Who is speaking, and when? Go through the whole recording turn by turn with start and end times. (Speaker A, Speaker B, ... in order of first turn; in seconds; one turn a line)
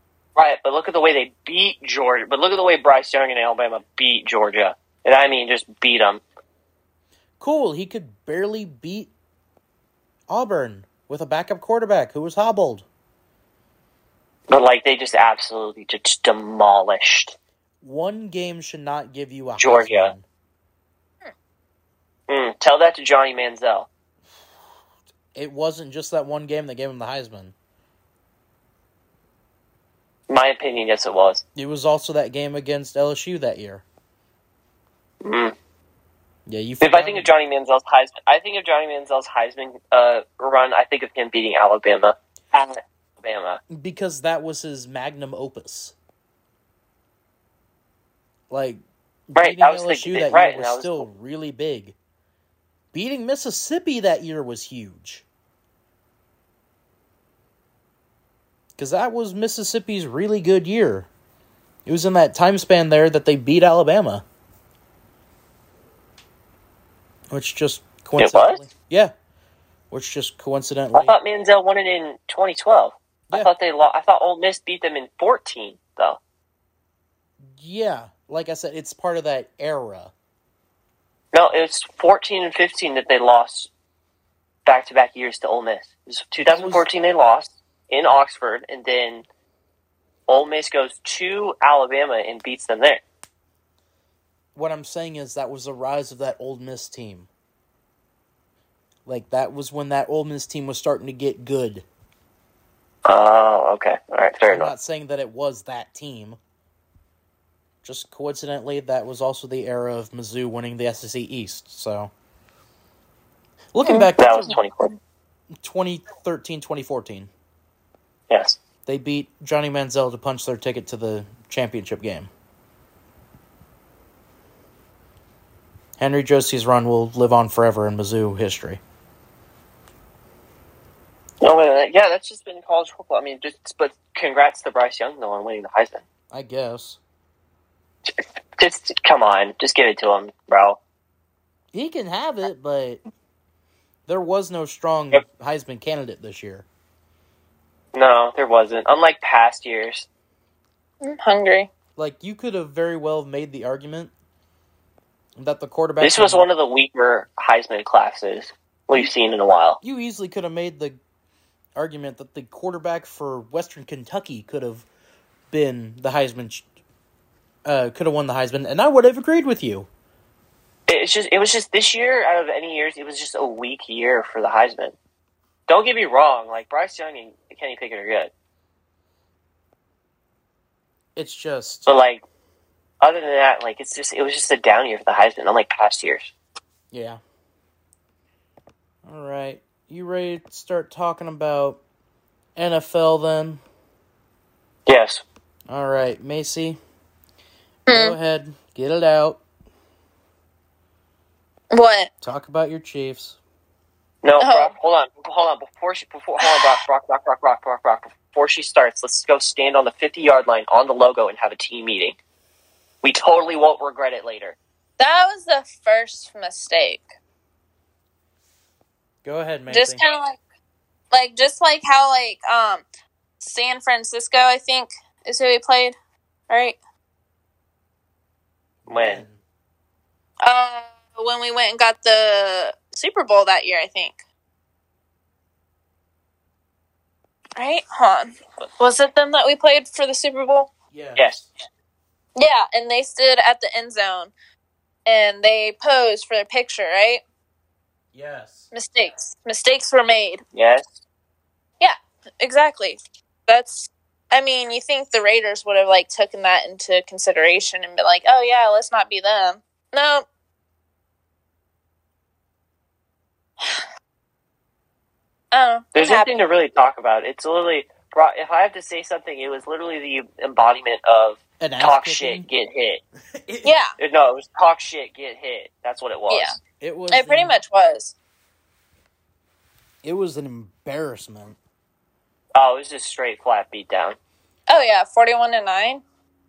Speaker A: 0.4-6.2
Speaker B: 7.4-9.1
Speaker B: 10.3-12.9
Speaker A: 14.5-17.3
Speaker B: 17.8-20.2
Speaker A: 19.6-20.1
Speaker A: 22.3-23.9
Speaker B: 25.3-27.5
Speaker A: 30.3-31.4
Speaker B: 31.6-33.8
Speaker A: 35.2-35.5
Speaker B: 36.5-37.3
Speaker A: 36.8-43.6
Speaker B: 43.7-45.9
Speaker B: 48.5-52.0
Speaker A: 49.4-51.0
Speaker B: 52.9-55.2
Speaker B: 58.8-61.1
Speaker B: 61.9-64.2
Speaker B: 67.3-69.1
Speaker A: 68.2-68.6
Speaker B: 69.9-71.2
Speaker A: 70.9-76.2
Speaker B: 77.4-80.1
Speaker A: 81.3-83.7
Speaker A: 84.7-89.2
Speaker B: 86.4-86.8
Speaker A: 90.3-93.0
Speaker B: 94.5-97.3
Speaker B: 99.1-101.8
Speaker A: 103.1-104.7
Speaker B: 104.5-106.4
Speaker B: 107.8-112.1
Speaker B: 113.7-114.6
Speaker C: 113.8-114.6
Speaker A: 114.2-114.9
Speaker B: 115.6-117.3
Speaker A: 118.3-118.6
Speaker B: 118.9-122.3
Speaker B: 126.0-128.8
Speaker A: 131.4-136.0
Speaker B: 136.3-137.0
Speaker A: 138.6-140.8
Speaker B: 141.7-143.0
Speaker B: 144.1-146.7
Speaker A: 147.9-150.1
Speaker C: 151.0-151.7
Speaker B: 152.0-154.1
Speaker B: 155.4-156.5
Speaker A: 156.0-159.8
Speaker B: 159.8-161.0
Speaker B: 161.8-164.9
Speaker B: 165.5-166.7
Speaker B: 167.7-169.9
Speaker A: 170.9-174.9
Speaker A: 175.7-178.3
Speaker B: 181.2-181.9
Speaker A: 181.9-182.2
Speaker A: 183.0-186.3
Speaker B: 186.9-187.2
Speaker B: 189.1-191.8
Speaker B: 192.6-193.6
Speaker A: 194.9-195.2
Speaker B: 195.7-196.8
Speaker C: 197.9-198.2
Speaker B: 197.9-199.4
Speaker C: 201.7-202.1
Speaker B: 202.2-203.4
Speaker A: 204.2-212.2
Speaker C: 204.4-204.7
Speaker C: 206.4-206.8
Speaker A: 213.0-214.6
Speaker C: 215.0-217.1
Speaker B: 219.2-220.0
Speaker C: 219.7-220.4
Speaker C: 221.1-222.8
Speaker C: 223.4-226.0
Speaker C: 226.5-226.8
Speaker B: 228.8-229.4
Speaker A: 228.9-229.2
Speaker C: 230.4-234.2
Speaker C: 237.6-240.7
Speaker B: 240.9-241.4
Speaker A: 241.2-241.4
Speaker C: 242.4-244.3
Speaker C: 245.1-247.2
Speaker B: 248.1-248.7
Speaker C: 248.7-250.4
Speaker A: 250.5-250.8
Speaker C: 251.8-260.3
Speaker C: 265.5-266.3
Speaker A: 265.9-273.0
Speaker B: 271.6-272.5
Speaker B: 273.4-273.7
Speaker C: 273.6-273.9
Speaker A: 274.0-276.6
Speaker C: 276.3-276.6
Speaker B: 276.8-277.6
Speaker C: 277.1-278.1
Speaker B: 280.0-281.6
Speaker A: 282.6-284.2
Speaker C: 284.7-286.0